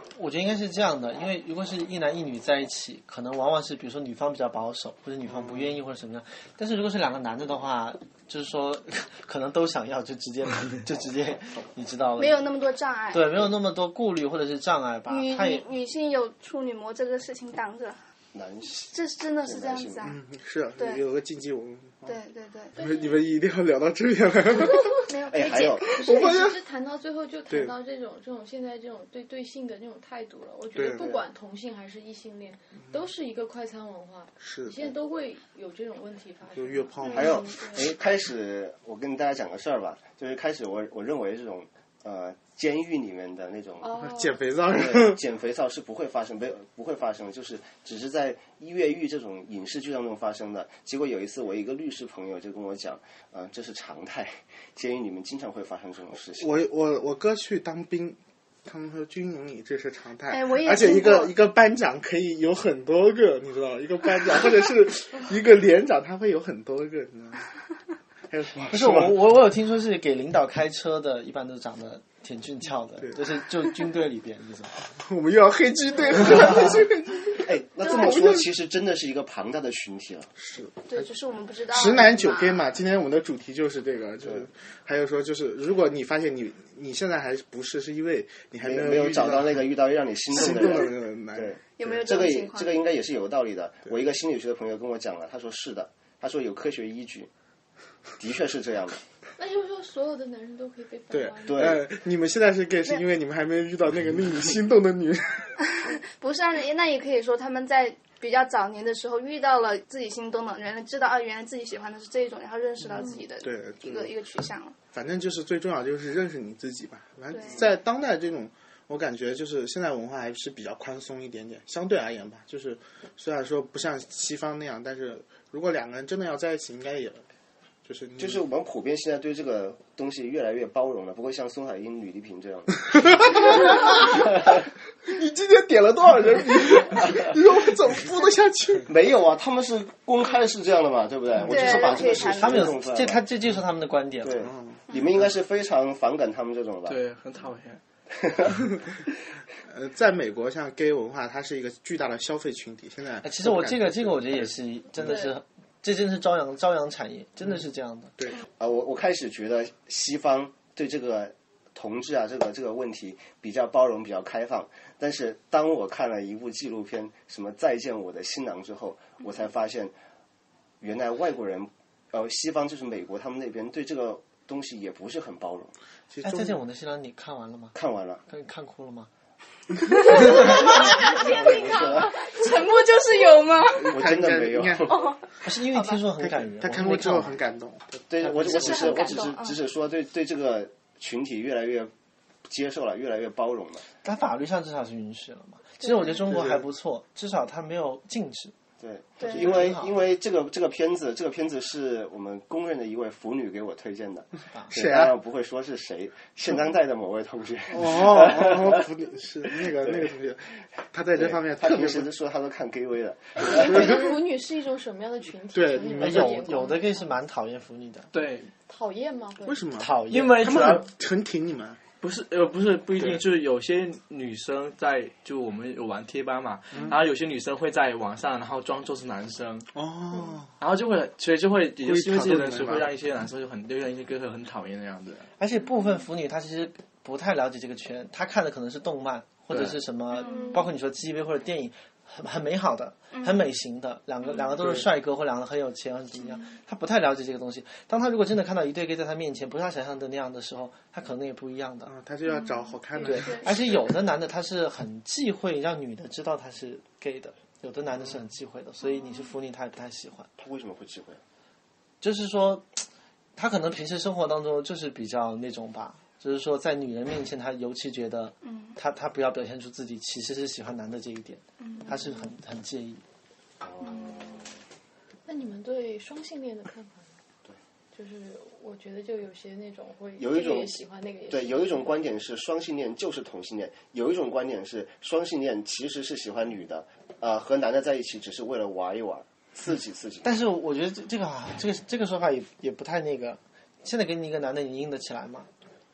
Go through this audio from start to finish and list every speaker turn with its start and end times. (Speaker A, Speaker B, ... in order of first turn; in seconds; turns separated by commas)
Speaker A: 0.1-12.4, Speaker B: 5.3-5.7, Speaker C: 12.2-13.4, Speaker A: 13.1-15.6, Speaker C: 15.1-18.0, Speaker D: 18.3-20.0, Speaker C: 18.9-20.1, Speaker B: 20.0-22.2, Speaker C: 22.1-22.8, Speaker E: 22.8-23.2, Speaker B: 22.8-25.0, Speaker C: 25.1-26.4, Speaker D: 25.3-26.0, Speaker B: 26.0-26.6, Speaker E: 26.0-37.8, Speaker B: 27.5-27.8, Speaker B: 30.7-31.2, Speaker B: 34.4-34.9, Speaker B: 36.5-37.4, Speaker C: 37.1-37.5, Speaker D: 37.1-43.9, Speaker E: 43.8-44.4, Speaker B: 43.9-45.2, Speaker D: 44.7-56.5, Speaker B: 56.3-67.5, Speaker C: 60.3-61.3, Speaker B: 68.3-69.2, Speaker A: 68.7-74.7, Speaker B: 75.0-78.5, Speaker D: 77.4-80.3, Speaker B: 80.4-81.1, Speaker C: 80.8-82.7, Speaker B: 81.7-89.7, Speaker D: 88.6-97.3, Speaker B: 90.3-92.0, Speaker C: 91.7-92.8, Speaker D: 98.2-99.0, Speaker E: 99.4-101.8, Speaker B: 101.1-105.5, Speaker D: 101.4-101.8, Speaker C: 105.8-114.8, Speaker B: 112.9-114.2, Speaker B: 114.9-127.2, Speaker C: 117.3-117.7, Speaker B: 127.8-128.4, Speaker D: 128.2-134.6, Speaker B: 132.9-134.1, Speaker B: 135.0-138.9, Speaker D: 138.9-143.2, Speaker B: 141.4-142.4, Speaker C: 141.4-142.8, Speaker A: 142.2-144.4, Speaker D: 144.2-147.0, Speaker B: 144.4-145.3, Speaker F: 146.9-147.8, Speaker D: 148.1-148.6, Speaker B: 149.7-155.3, Speaker A: 153.2-158.1, Speaker D: 158.5-169.9, Speaker D: 170.8-175.7, Speaker B: 176.1-176.6, Speaker A: 176.2-177.7, Speaker D: 177.7-178.2, Speaker A: 178.3-179.1, Speaker C: 180.0-183.9, Speaker D: 180.3-182.2, Speaker E: 181.2-182.1, Speaker B: 183.7-185.0, Speaker D: 183.9-185.1, Speaker A: 185.4-187.4, Speaker B: 186.2-188.8, Speaker D: 188.1-191.9, Speaker A: 188.2-189.2, Speaker C: 188.4-189.6, Speaker D: 192.4-193.8, Speaker A: 194.0-198.5, Speaker C: 195.8-196.1, Speaker B: 196.2-196.6, Speaker D: 198.8-208.8, Speaker C: 199.2-199.6, Speaker A: 199.3-199.9, Speaker B: 204.7-205.1, Speaker B: 207.7-212.1, Speaker D: 209.5-210.1, Speaker D: 211.2-214.0, Speaker E: 213.4-217.1, Speaker B: 213.7-214.0, Speaker B: 215.5-216.5, Speaker A: 216.0-218.1, Speaker F: 218.1-218.5, Speaker E: 218.7-219.6, Speaker B: 219.4-221.8, Speaker A: 219.8-220.5, Speaker F: 220.1-220.9, Speaker F: 222.0-229.7, Speaker B: 223.0-223.2, Speaker B: 229.7-230.5, Speaker F: 230.6-235.3, Speaker B: 231.8-232.9, Speaker A: 235.4-251.9, Speaker C: 240.1-240.7, Speaker E: 240.2-240.7, Speaker C: 243.1-243.4, Speaker B: 244.6-244.8, Speaker B: 251.8-253.6, Speaker C: 252.2-253.5, Speaker A: 253.0-260.3, Speaker C: 258.8-259.3, Speaker D: 260.4-261.2, Speaker A: 262.0-262.8, Speaker A: 263.4-273.0, Speaker C: 268.4-268.8, Speaker C: 271.6-272.1, Speaker D: 273.6-274.4, Speaker C: 273.8-274.4, Speaker E: 275.2-277.1, Speaker E: 277.9-281.9, Speaker D: 280.2-280.7, Speaker D: 281.3-290.3, Speaker A: 290.2-295.5